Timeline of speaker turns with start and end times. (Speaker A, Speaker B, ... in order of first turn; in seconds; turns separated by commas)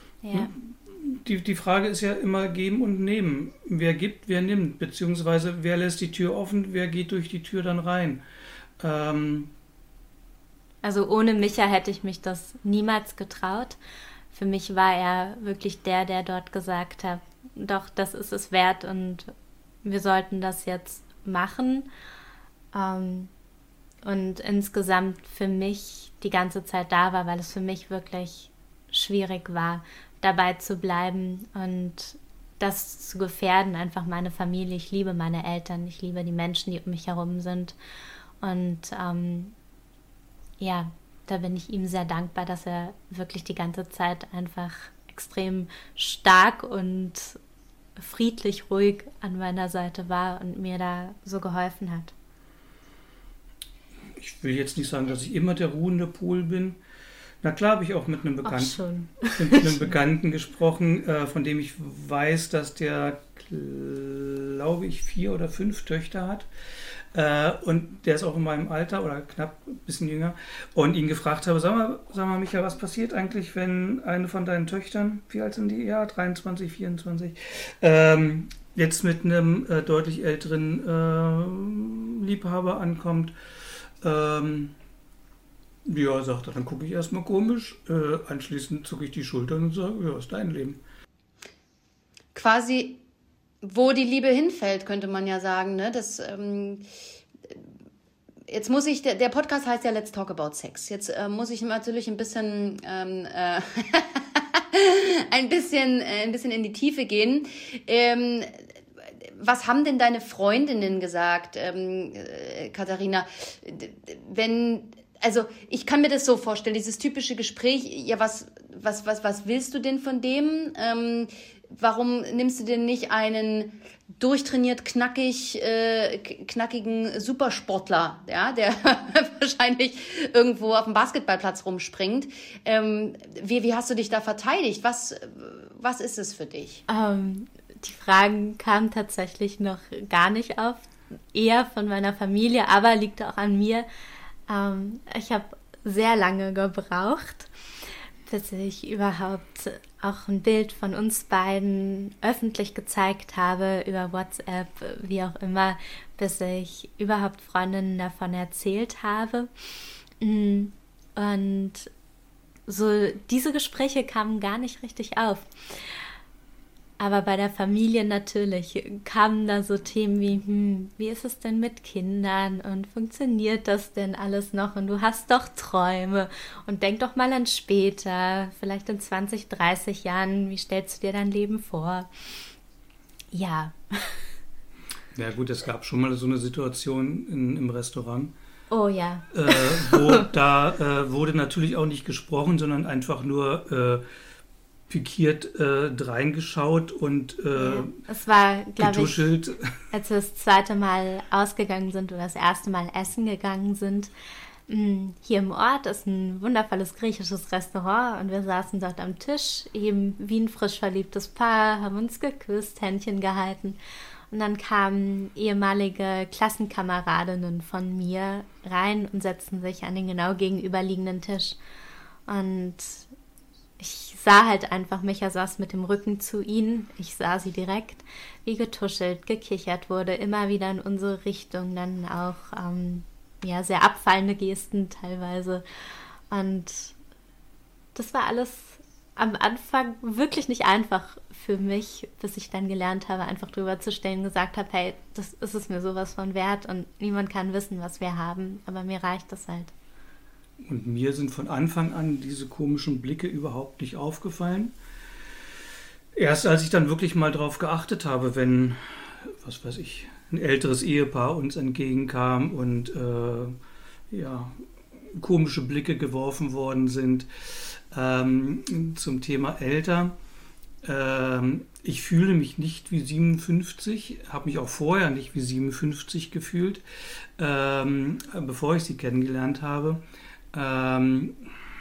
Speaker A: 0.2-0.5, Speaker B: 0.3-8.2, Speaker B: 8.8-9.5, Speaker A: 10.8-13.8, Speaker A: 14.3-19.3, Speaker A: 19.8-21.9, Speaker A: 22.7-23.3, Speaker A: 24.0-37.7, Speaker A: 38.4-39.5, Speaker A: 40.6-47.4, Speaker A: 48.0-52.1, Speaker B: 54.1-56.8, Speaker B: 57.4-66.5, Speaker A: 58.4-60.0, Speaker B: 67.1-83.3, Speaker B: 84.0-84.7, Speaker B: 85.8-90.8, Speaker C: 92.3-93.0, Speaker C: 93.6-96.8, Speaker C: 98.5-108.6, Speaker C: 109.2-136.8, Speaker A: 136.9-143.8, Speaker A: 144.5-147.5, Speaker A: 148.3-159.5, Speaker A: 160.2-161.9, Speaker A: 162.7-165.5, Speaker A: 167.0-182.1, Speaker A: 183.3-184.2, Speaker B: 185.1-188.3, Speaker A: 188.7-190.2, Speaker B: 189.3-194.0, Speaker B: 194.9-198.0, Speaker A: 197.6-199.3, Speaker B: 198.8-199.7, Speaker A: 199.9-204.1, Speaker A: 204.7-213.8, Speaker A: 214.3-221.6, Speaker A: 222.3-223.1, Speaker A: 223.8-235.6, Speaker A: 236.3-236.9, Speaker A: 237.9-249.7, Speaker B: 250.6-254.7, Speaker B: 256.1-263.6, Speaker B: 264.1-270.1, Speaker B: 270.8-276.8, Speaker B: 277.4-280.0, Speaker B: 280.5-281.4